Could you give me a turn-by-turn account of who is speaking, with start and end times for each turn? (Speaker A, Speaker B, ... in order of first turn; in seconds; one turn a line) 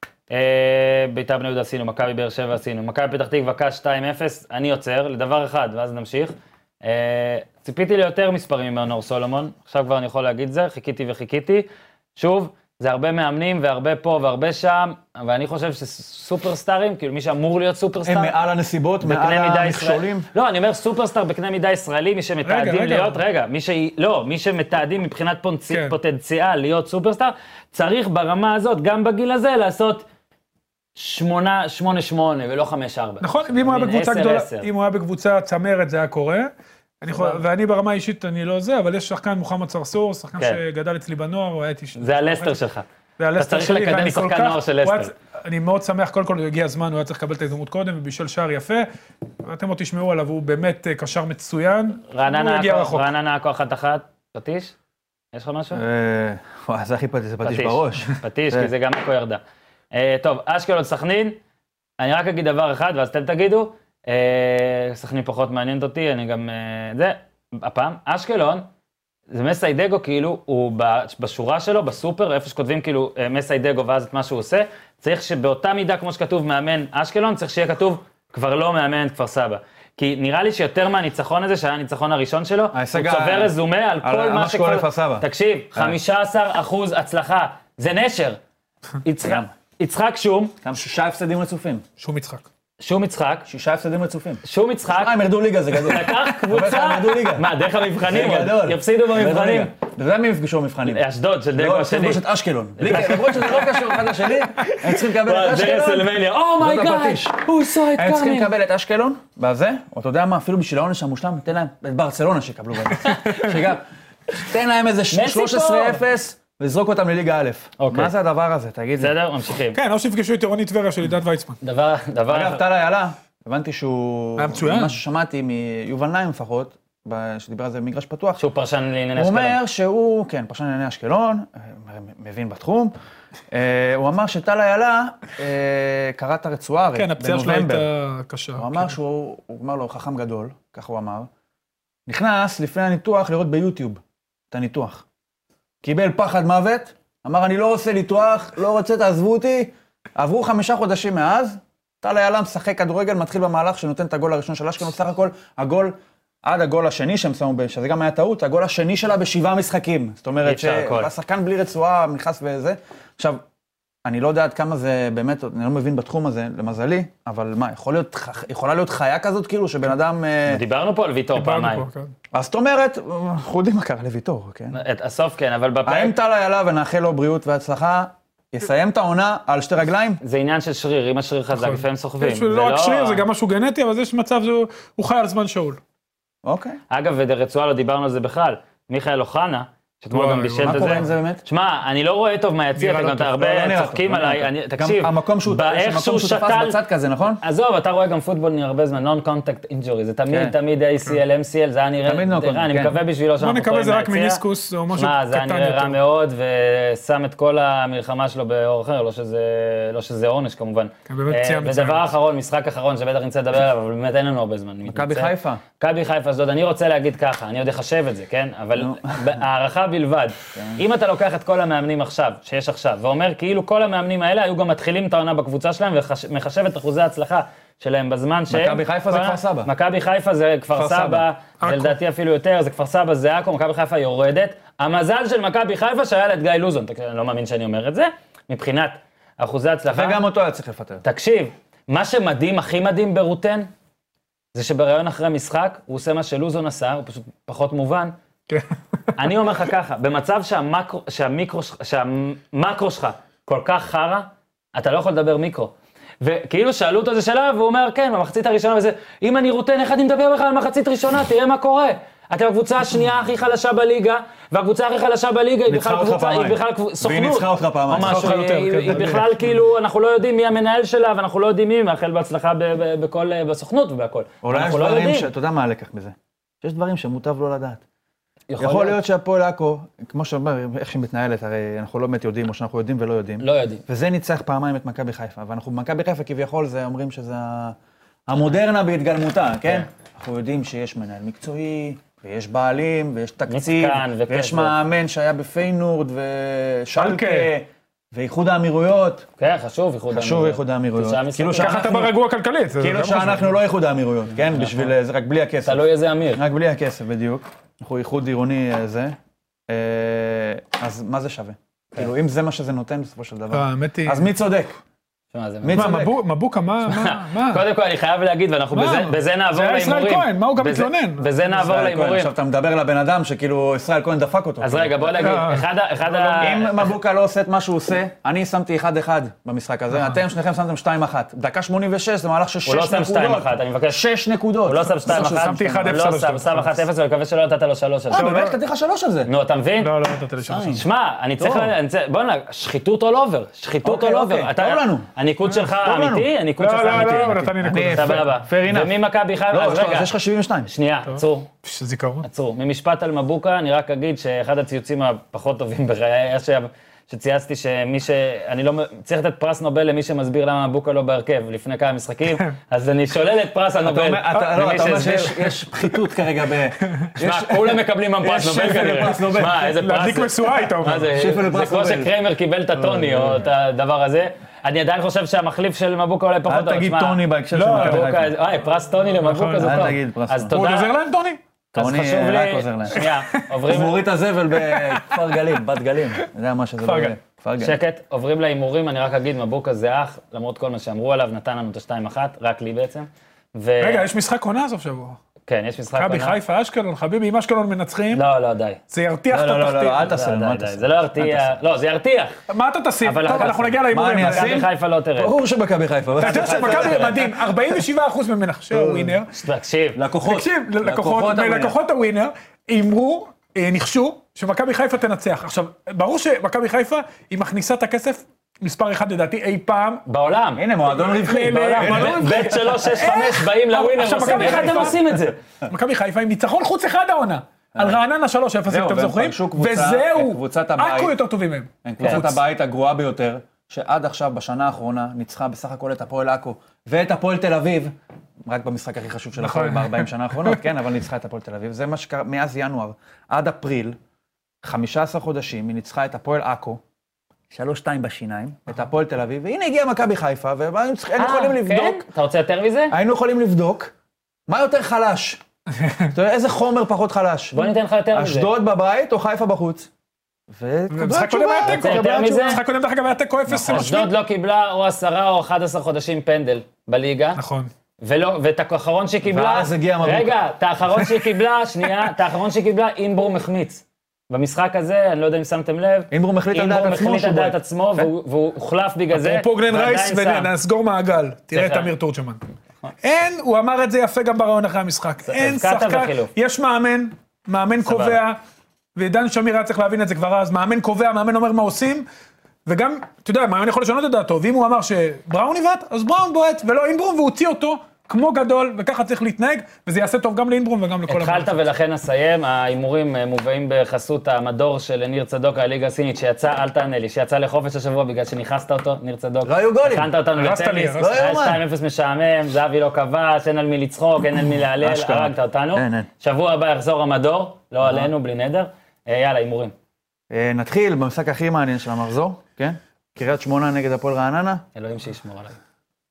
Speaker A: 0.3-18.4
Speaker B: 18.0-20.3
Speaker A: 19.0-30.0
Speaker C: 22.4-23.2
Speaker C: 25.7-26.0
Speaker A: 30.9-34.7
Speaker C: 33.2-36.5
Speaker C: 37.0-42.6
Speaker A: 37.1-37.4
Speaker A: 42.0-42.9
Speaker C: 43.2-48.9
Speaker A: 43.4-45.1
Speaker C: 49.4-53.1
Speaker A: 52.1-54.7
Speaker A: 55.3-55.8
Speaker B: 55.7-58.7
Speaker A: 57.4-59.4
Speaker A: 59.9-61.4
Speaker A: 62.0-68.7
Speaker A: 69.3-88.4
Speaker B: 82.7-86.0
Speaker A: 89.0-90.5
Speaker B: 89.2-89.5
Speaker B: 90.6-91.8
Speaker C: 92.0-92.5
Speaker A: 92.8-93.5
Speaker B: 93.5-119.1
Speaker A: 94.4-99.7
Speaker A: 100.8-102.2
Speaker A: 102.8-108.5
Speaker A: 113.0-113.5
Speaker A: 115.1-116.0
Speaker A: 117.8-118.1
Speaker A: 119.0-119.8
Speaker C: 119.7-121.6
Speaker A: 121.6-122.6
Speaker B: 122.3-128.4
Speaker C: 124.4-125.0
Speaker A: 128.4-129.6
Speaker B: 129.2-132.9
Speaker B: 133.5-137.8
Speaker C: 136.9-138.9
Speaker B: 138.6-141.3
Speaker B: 142.1-145.0
Speaker B: 145.8-163.4
Speaker A: 160.4-161.1
Speaker B: 164.0-170.6
Speaker A: 170.5-171.8
Speaker C: 171.3-172.1
Speaker B: 172.3-174.8
Speaker A: 174.7-176.1
Speaker B: 175.8-180.2
Speaker A: 180.2-183.2
Speaker C: 181.5-185.8
Speaker B: 186.4-186.8
Speaker A: 186.9-196.8
Speaker C: 190.1-191.1
Speaker B: 190.6-191.4
Speaker B: 192.8-197.4
Speaker A: 197.4-204.4
Speaker B: 200.3-200.5
Speaker B: 202.0-203.0
Speaker C: 203.4-206.0
Speaker A: 204.9-240.2
Speaker C: 211.1-212.1
Speaker B: 214.8-215.6
Speaker B: 218.8-219.4
Speaker B: 220.5-220.8
Speaker B: 228.5-229.7
Speaker B: 230.7-231.2
Speaker C: 231.6-231.9
Speaker B: 239.9-241.0
Speaker A: 241.0-243.7
Speaker A: 244.5-248.1
Speaker A: 249.2-275.3
Speaker B: 265.7-268.3
Speaker C: 267.9-269.6
Speaker B: 274.4-277.8
Speaker A: 278.5-279.0
Speaker B: 278.6-287.8
Speaker A: 283.4-283.8
Speaker B: 288.3-299.3
Speaker A: 293.5-294.8
Speaker C: 296.9-297.5
Speaker A: 299.4-301.8
Speaker B: 300.1-302.1
Speaker C: 301.6-303.5
Speaker B: 302.8-309.1
Speaker A: 304.4-304.9
Speaker A: 305.6-306.4
Speaker B: 309.7-314.8
Speaker C: 313.5-314.2
Speaker A: 315.3-316.0
Speaker B: 315.6-316.2
Speaker C: 315.7-317.6
Speaker A: 316.9-322.3
Speaker C: 318.7-321.4
Speaker B: 321.5-325.3
Speaker A: 324.6-326.7
Speaker C: 325.2-326.6
Speaker B: 326.4-336.0
Speaker C: 329.9-330.2
Speaker A: 332.6-334.0
Speaker A: 334.6-338.3
Speaker C: 335.1-336.8
Speaker B: 338.1-339.3
Speaker C: 338.1-338.6
Speaker A: 339.3-339.9
Speaker C: 339.8-340.8
Speaker B: 340.5-340.8
Speaker A: 340.7-350.1
Speaker B: 341.4-341.7
Speaker B: 343.8-345.1
Speaker B: 345.7-346.3
Speaker C: 346.6-348.3
Speaker B: 346.9-348.9
Speaker B: 349.5-350.7
Speaker A: 350.7-351.5
Speaker C: 351.1-352.2
Speaker A: 352.2-365.4
Speaker B: 363.8-369.7
Speaker A: 367.2-377.2
Speaker C: 368.6-371.1
Speaker B: 371.1-372.1
Speaker B: 372.8-373.4
Speaker B: 376.4-378.3
Speaker C: 377.5-378.1
Speaker A: 377.7-380.9
Speaker C: 379.2-379.9
Speaker B: 379.6-380.5
Speaker C: 380.5-381.4
Speaker A: 381.7-384.0
Speaker B: 381.7-383.1
Speaker C: 383.0-383.4
Speaker B: 383.7-387.8
Speaker C: 384.6-385.3
Speaker C: 386.8-387.1
Speaker A: 387.6-394.1
Speaker C: 393.8-395.2
Speaker A: 395.5-396.4
Speaker C: 395.9-398.2
Speaker A: 398.1-398.8
Speaker C: 398.9-400.1
Speaker B: 399.3-401.5
Speaker A: 400.0-402.4
Speaker C: 402.5-404.6
Speaker A: 403.0-405.3
Speaker B: 403.4-407.6
Speaker C: 406.2-409.3
Speaker A: 406.2-407.1
Speaker B: 408.7-409.2
Speaker A: 409.3-410.0
Speaker B: 409.9-411.8
Speaker C: 410.2-420.0
Speaker A: 420.1-420.6
Speaker B: 420.6-422.5
Speaker C: 420.9-425.0
Speaker A: 421.4-425.4
Speaker B: 424.3-425.2
Speaker C: 425.7-432.4
Speaker B: 428.7-431.1
Speaker B: 431.8-437.9
Speaker A: 432.0-432.2
Speaker B: 438.4-444.0
Speaker C: 439.4-440.6
Speaker B: 444.6-446.8
Speaker B: 447.5-452.1
Speaker A: 451.2-452.9
Speaker B: 452.9-453.9
Speaker B: 454.5-455.4
Speaker C: 455.8-456.1
Speaker B: 456.1-459.9
Speaker A: 457.5-458.5
Speaker B: 460.5-462.5
Speaker C: 460.9-464.1
Speaker A: 461.6-462.6
Speaker B: 463.5-463.9
Speaker A: 463.6-467.4
Speaker C: 467.4-467.7
Speaker A: 468.0-480.5
Speaker B: 469.2-470.4
Speaker B: 476.1-477.6
Speaker C: 479.1-482.4
Speaker A: 481.5-481.9
Speaker C: 483.0-488.4
Speaker A: 485.2-486.3
Speaker A: 487.8-488.2
Speaker C: 488.9-492.1
Speaker C: 492.6-501.5
Speaker A: 501.1-519.7
Speaker B: 509.4-510.1
Speaker C: 510.4-511.2
Speaker B: 511.0-511.6
Speaker B: 514.8-516.1
Speaker B: 517.8-518.1
Speaker B: 520.3-524.6
Speaker A: 524.7-525.6